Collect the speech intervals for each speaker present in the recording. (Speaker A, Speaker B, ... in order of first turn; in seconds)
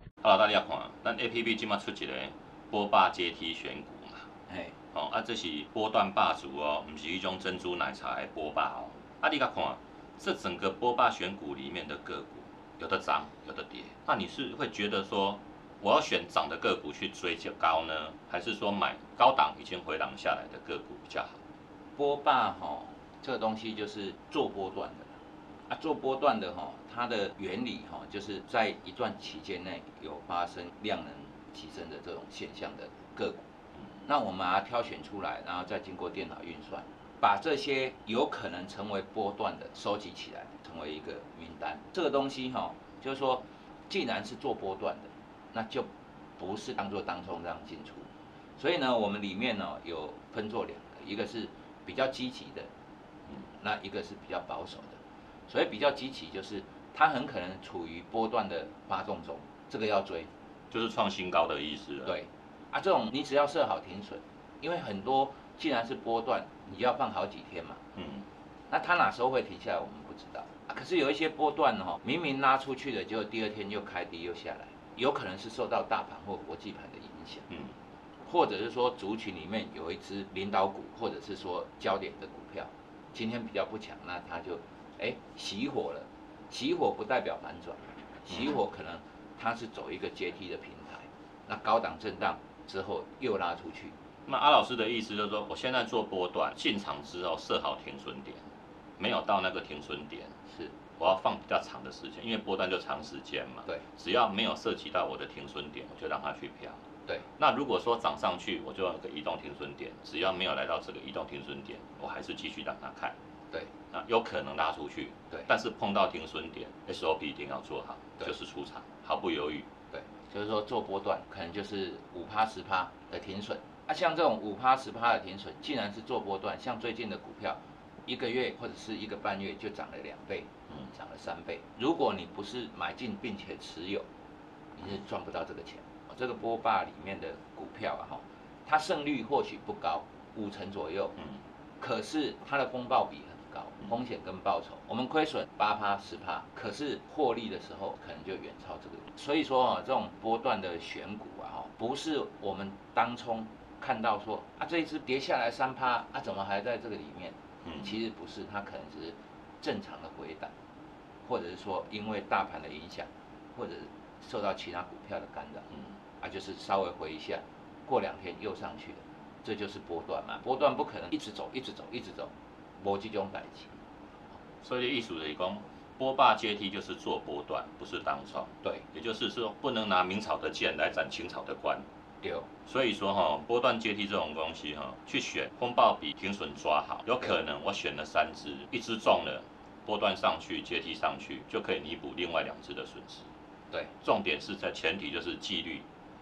Speaker A: 0.2-4.3, 4.9-21.4, 60.7-62.2, 68.0-68.3, 77.5-77.8, 94.3-98.4, 99.0-100.4, 101.0-106.8, 107.4-113.2, 113.9-119.7, 174.6-181.8, 182.7-193.3, 194.0-195.8
Speaker B: 4.5-4.7, 22.0-25.1, 25.7-33.5, 34.1-52.7, 53.6-60.3, 62.0-67.8, 68.7-77.5, 78.3-94.0, 100.5-100.8, 119.9-134.1, 134.8-141.2, 141.8-160.5, 161.2-165.7, 166.2-173.8, 182.2-182.5